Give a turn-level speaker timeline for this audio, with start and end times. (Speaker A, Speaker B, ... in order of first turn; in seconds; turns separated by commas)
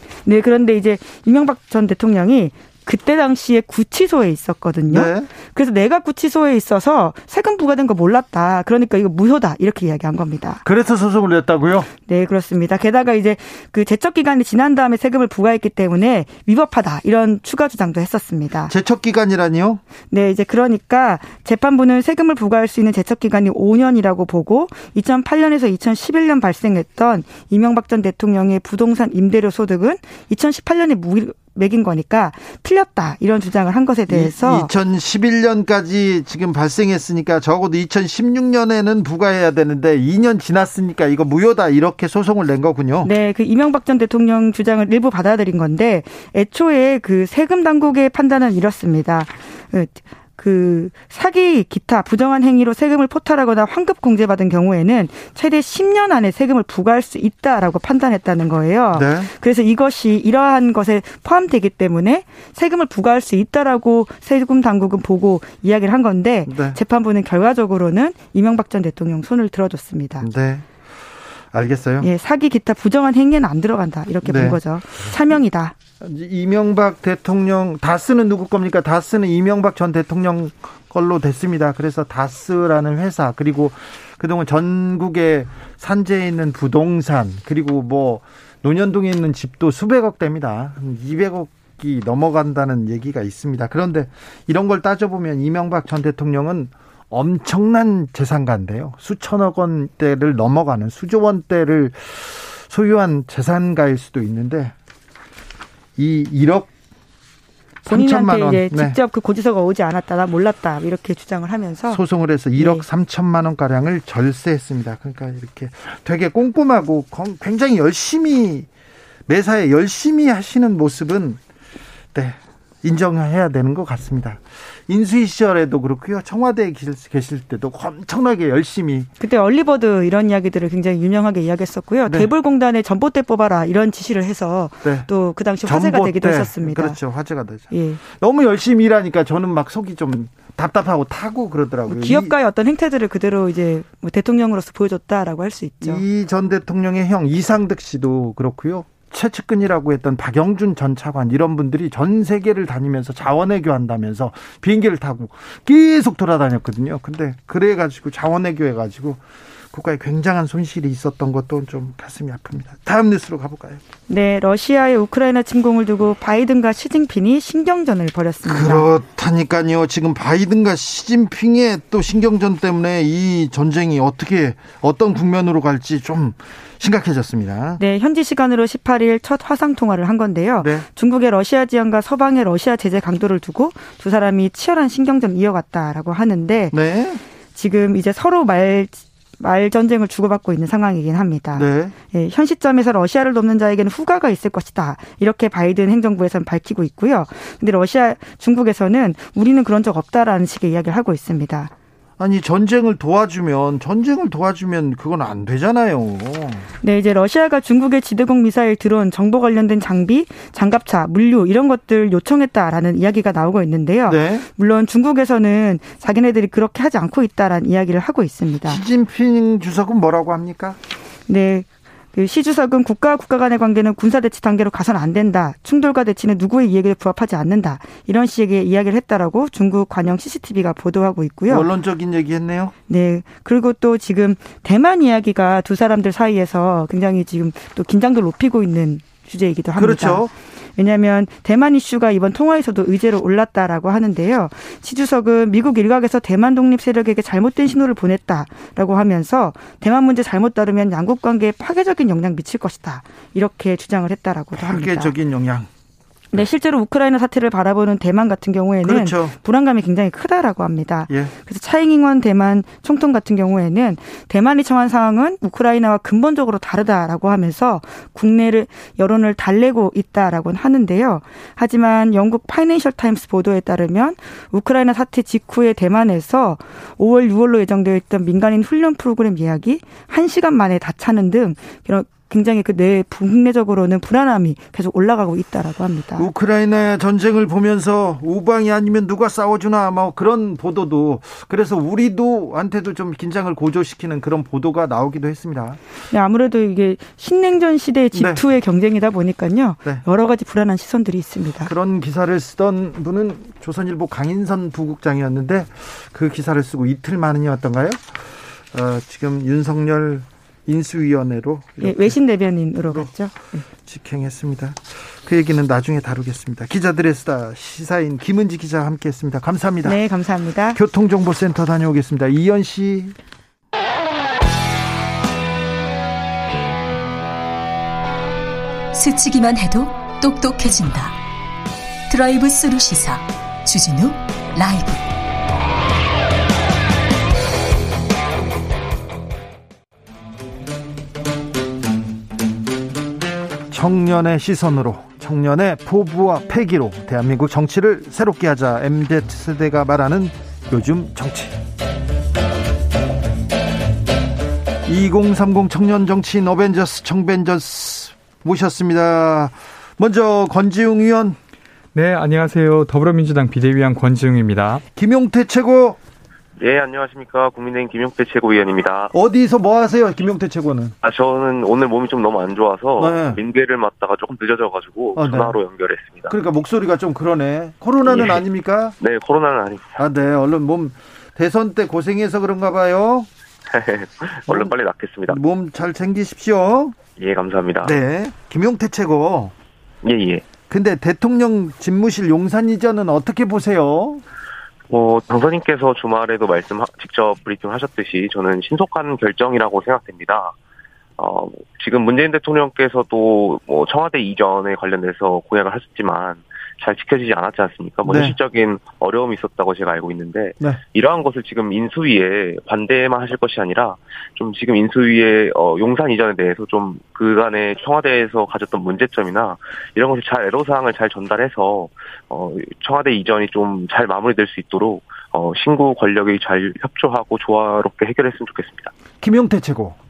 Speaker A: 0.2-10.6, Speaker B: 4.9-5.3, Speaker B: 10.6-11.9, Speaker A: 12.0-18.7, Speaker B: 18.7-19.8, Speaker A: 20.1-34.7, Speaker B: 34.1-43.1, Speaker A: 43.0-70.3, Speaker B: 58.9-59.3, Speaker B: 66.5-66.8, Speaker B: 70.2-70.7, Speaker B: 71.5-72.1, Speaker A: 72.0-75.8, Speaker B: 74.2-74.6, Speaker B: 76.0-104.7, Speaker B: 106.0-106.7, Speaker B: 107.8-109.0, Speaker A: 107.8-112.0, Speaker B: 111.9-118.7, Speaker A: 112.5-112.8, Speaker B: 119.3-121.4, Speaker B: 122.1-129.1, Speaker A: 129.2-137.0, Speaker B: 132.1-132.3, Speaker B: 135.6-142.3, Speaker A: 137.7-138.0, Speaker A: 141.8-146.0, Speaker B: 145.8-159.2, Speaker B: 159.7-163.8, Speaker A: 164.1-168.8, Speaker B: 168.4-177.8, Speaker A: 177.8-186.8, Speaker B: 186.7-187.2, Speaker A: 187.5-201.7, Speaker B: 191.6-191.9, Speaker B: 202.2-206.7, Speaker A: 206.8-218.8, Speaker B: 214.1-214.4, Speaker B: 218.6-220.8, Speaker A: 221.3-231.7, Speaker B: 231.5-232.7, Speaker A: 232.9-255.1, Speaker B: 239.8-240.3, Speaker B: 254.5-255.7, Speaker A: 256.3-286.3, Speaker B: 258.8-259.4, Speaker B: 286.2-295.8, Speaker A: 296.1-301.7, Speaker B: 298.1-298.4, Speaker B: 301.6-312.2, Speaker A: 311.8-313.6, Speaker B: 313.8-320.0, Speaker A: 319.8-320.8, Speaker B: 320.7-323.1, Speaker C: 328.9-331.1, Speaker C: 332.1-335.0, Speaker B: 343.7-351.6, Speaker B: 354.9-361.4, Speaker D: 361.9-364.8, Speaker B: 364.9-366.0, Speaker E: 366.6-369.1, Speaker B: 369.1-370.9, Speaker E: 371.0-376.4, Speaker B: 373.0-373.4, Speaker B: 375.1-375.6, Speaker B: 376.3-378.9, Speaker E: 378.0-378.4, Speaker E: 379.0-380.0, Speaker B: 380.0-383.3, Speaker E: 383.7-385.4, Speaker B: 384.5-384.7, Speaker B: 385.3-387.0, Speaker E: 387.1-387.9, Speaker B: 387.8-389.5, Speaker E: 390.0-390.4, Speaker B: 390.7-394.2, Speaker E: 394.9-400.5, Speaker E: 401.2-428.9, Speaker B: 408.0-408.4, Speaker B: 429.2-430.0